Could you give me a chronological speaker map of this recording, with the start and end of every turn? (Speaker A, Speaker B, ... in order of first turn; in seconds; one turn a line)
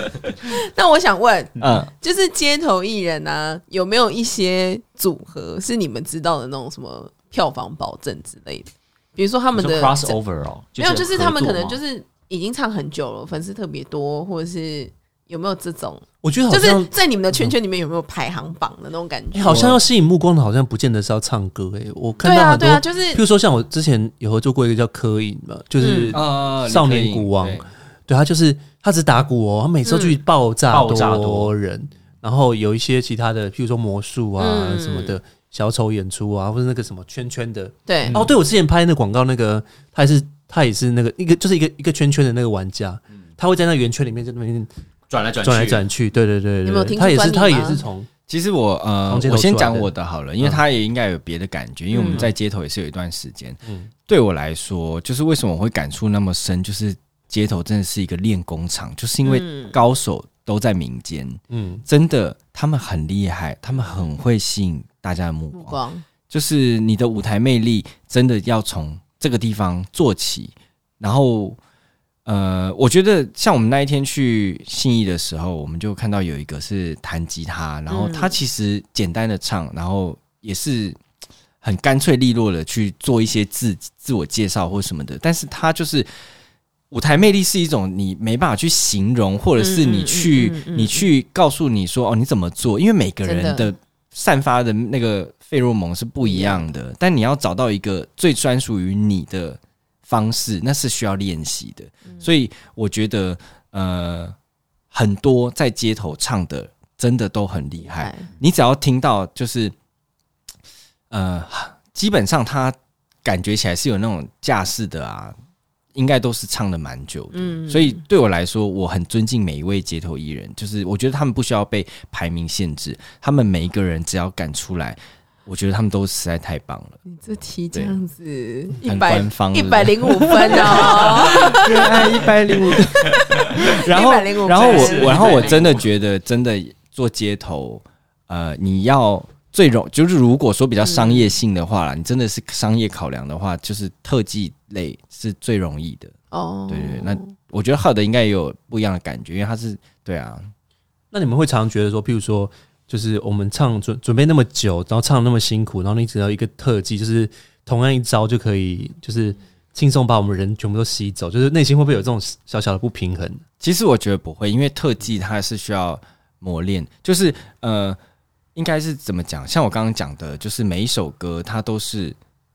Speaker A: 0.5-10.2
Speaker B: 1.6-1.9
Speaker C: 9.5-11.8
Speaker A: 10.8-19.8
Speaker D: 16.2-17.6
Speaker D: 19.3-44.7
Speaker A: 22.2-23.2
Speaker A: 25.8-26.2
Speaker B: 26.1-27.7
Speaker A: 29.9-30.2
Speaker C: 30.7-31.5
Speaker A: 34.4-35.2
Speaker A: 37.9-38.2
Speaker C: 45.1-45.8
Speaker D: 45.4-48.1
Speaker A: 46.6-47.8
Speaker B: 48.3-71.6
Speaker D: 49.1-50.6
Speaker A: 51.9-52.3
Speaker D: 53.6-53.9
Speaker A: 59.2-59.8
Speaker D: 61.5-61.8
Speaker A: 65.5-66.0
Speaker B: 72.3-81.0
Speaker A: 77.9-78.3
Speaker B: 81.6-86.1
Speaker B: 86.9-104.3
Speaker A: 89.6-91.1
Speaker A: 93.2-93.7
Speaker A: 96.2-96.7
Speaker B: 104.9-109.8
Speaker A: 107.8-108.3
Speaker B: 111.1-115.3
Speaker B: 116.0-127.0
Speaker A: 117.3-118.0
Speaker A: 127.1-135.7
Speaker B: 127.7-128.0
Speaker B: 128.8-146.1
Speaker C: 134.5-135.8
Speaker A: 140.8-141.3
Speaker A: 146.3-147.3
Speaker B: 146.7-150.5
Speaker D: 151.1-163.4
Speaker B: 163.6-168.0
Speaker B: 168.6-172.2